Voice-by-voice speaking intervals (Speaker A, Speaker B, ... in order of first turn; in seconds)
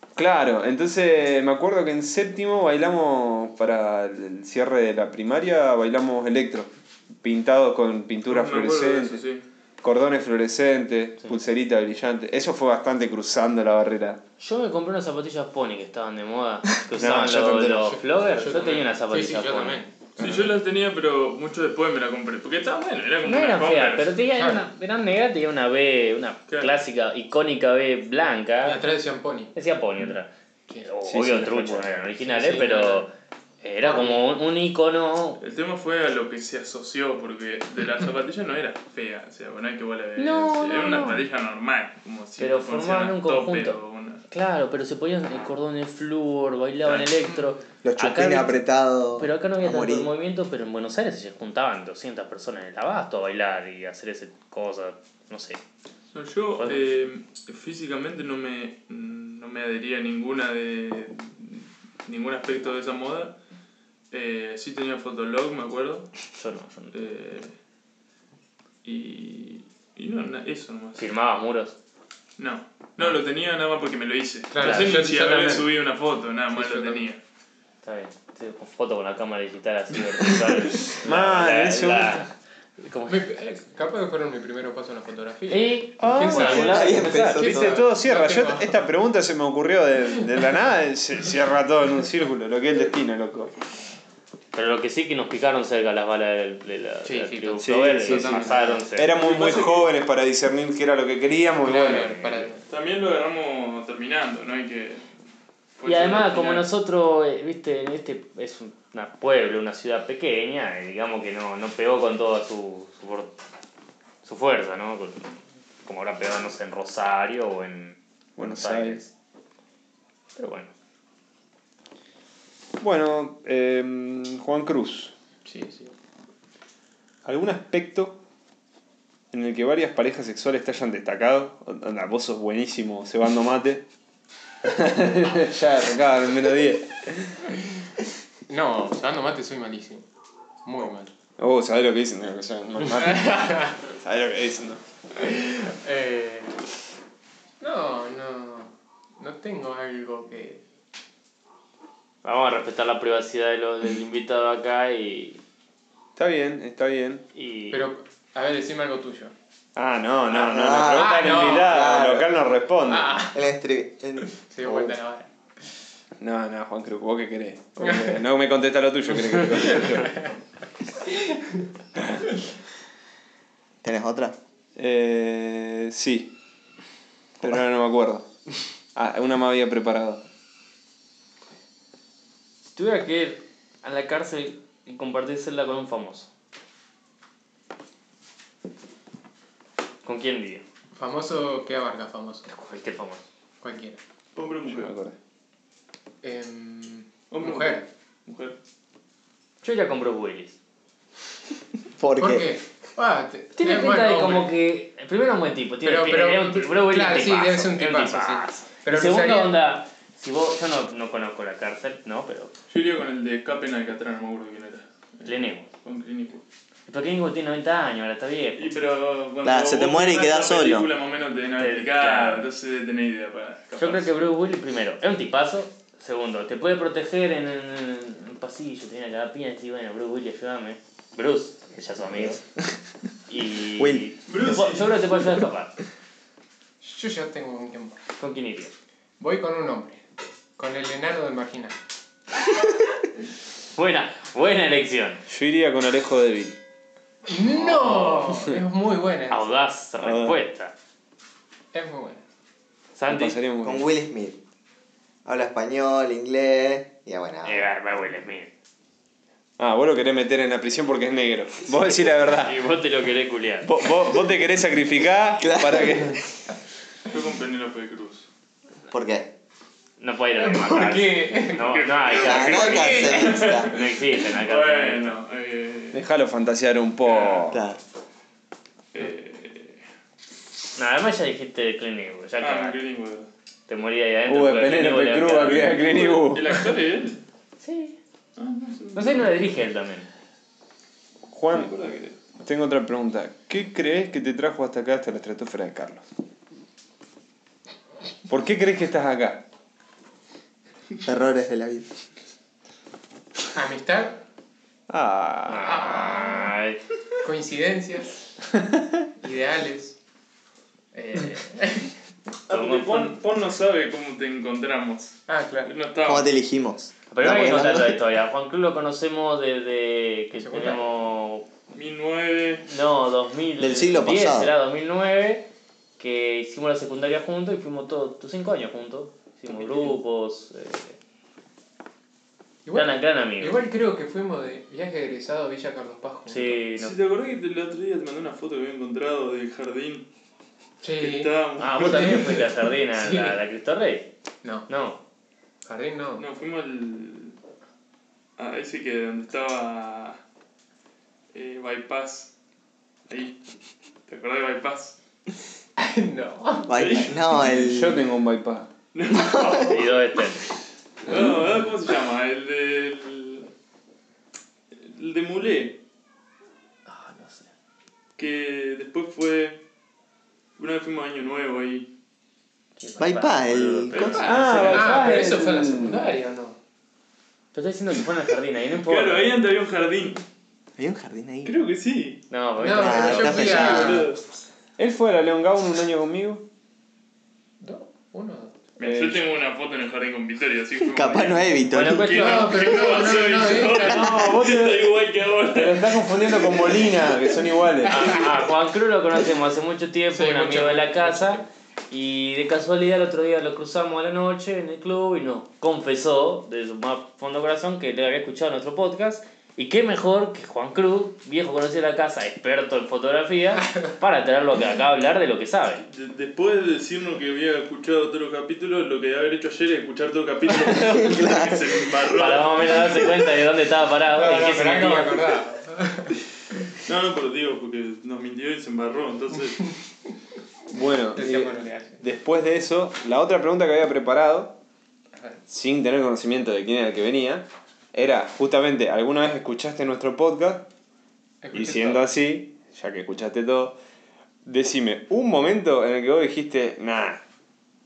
Speaker A: 0.2-6.7, 7.2-9.2, 9.8-14.2, 16.9-18.0, 31.1-31.9, 80.8-82.3, 86.0-93.5, 97.6-102.5, 118.4-119.0, 122.8-125.1, 127.2-128.2, 129.3-133.9, 134.6-137.5, 141.4-144.8, 156.2-157.2, 159.8-163.1, 166.2-170.3, 174.8-176.3, 177.4-178.3, 178.9-180.2, 194.7-195.2, 245.3-246.6, 250.0-250.4, 253.1-253.9, 259.6-262.6, 263.6-266.2, 275.9-277.7, 284.3-286.6, 291.3-291.7, 292.4-296.1, 298.3-299.4, 304.9-306.2, 357.5-358.7, 374.2-376.1, 384.8-386.4, 388.8-389.2, 393.8-394.9, 395.5-398.2, 430.7-434.6, 435.5-440.7, 441.5-443.8, 444.4-447.2
Speaker B: 8.3-9.4, 20.2-24.1, 35.4-44.2, 56.1-63.4, 64.1-66.1, 66.9-67.5, 68.8-71.0, 72.4-77.2, 99.1-99.9, 102.7-105.0, 105.8-106.7, 194.3-194.9, 197.3-198.6, 212.7-216.4, 218.6-224.1, 234.3-235.0, 267.1-268.3, 271.5-276.0, 277.0-277.5, 278.9-279.8, 282.4-283.3, 285.4-287.2, 288.4-289.4, 291.5-292.2, 312.5-316.3, 321.7-322.7, 336.8-340.1, 341.0-342.4, 346.2-347.4, 348.4-350.2, 351.3-352.3, 353.1-353.4, 354.1-355.0, 356.8-357.6, 358.9-360.0, 361.1-363.5, 364.7-365.8, 368.2-369.6, 370.6-371.9, 373.9-375.1, 378.9-380.2, 381.4-382.2, 383.3-384.2, 388.8-396.8, 415.9-423.1, 426.8-429.8
Speaker C: 14.4-19.8, 23.2-28.8, 29.5-30.3, 30.8-33.1, 33.6-35.4, 40.2-41.2, 42.4-48.6, 49.2-55.6, 56.6-56.9, 66.4-66.9, 71.0-71.8, 74.6-75.0, 77.8-83.2, 85.5-87.5, 94.5-99.2, 105.8-113.4, 114.2-119.1, 120.4-120.7, 152.2-155.4, 157.3-157.9, 182.8-186.3, 190.0-190.6, 192.5-193.2, 199.6-200.6, 203.6-212.5, 215.2-215.7, 216.9-218.7, 221.6-222.5, 223.8-232.4, 233.3-235.8, 238.2-238.7, 243.8-245.2, 247.6-248.3, 249.3-250.7, 253.0-253.4, 257.4-258.5, 262.2-263.7, 270.0-275.2, 280.8-282.8, 283.7-285.8, 287.6-288.0, 288.9-290.1, 305.5-306.8, 312.5-313.2, 317.1-321.5, 322.7-325.5, 326.0-331.0, 332.7-333.6, 336.3-336.9, 341.6-344.1, 344.7-345.0, 359.6-360.5, 366.9-367.5, 372.8-375.1, 377.5-379.4, 382.3-383.8, 391.7-392.8, 397.9-415.9, 422.1-425.2
Speaker D: 17.1-20.5, 24.3-24.7, 28.6-29.5, 32.2-33.1, 33.8-34.2, 47.2-47.5, 74.5-75.7, 76.5-77.0, 83.1-88.8, 97.0-98.8, 101.6-102.7, 125.5-125.9, 138.5-140.1, 140.7-141.1, 142.9-143.8, 145.2-146.5, 147.6-150.6, 157.7-159.3, 160.9-161.8, 162.9-163.4, 164.3-165.3, 167.8-168.1, 169.4-170.1, 191.0-192.5, 193.6-194.0, 196.2-197.8, 202.2-204.5, 205.8-209.6, 236.8-238.0, 239.2-240.0, 240.6-241.8, 247.3-249.4, 251.7-252.2, 270.4-271.7, 272.4-273.5, 303.5-304.2, 305.6-306.5, 307.2-308.3, 309.2-310.0, 310.9-311.9, 315.3-315.7, 320.4-320.9, 329.5-329.9, 332.6-336.6, 340.8-343.4, 345.6-346.2, 355.8-357.2, 374.6-376.6, 382.6-384.1, 387.6-388.6, 392.1-394.2, 397.9-398.2, 400.1-401.5, 424.1-426.2, 431.2-432.0, 435.2-435.4, 441.4-442.1
Speaker E: 47.8-50.1, 86.5-87.8, 160.3-162.3, 163.3-164.9, 173.8-174.4, 202.0-202.5, 219.4-220.9, 233.8-234.1, 253.6-254.4, 255.2-257.7, 265.4-266.2, 268.9-269.3, 272.2-273.7, 277.5-277.8, 301.0-301.9, 316.0-318.0, 323.6-324.5, 356.7-358.0, 373.0-374.2, 380.8-381.6, 382.7-384.1, 390.9-392.2, 420.6-421.7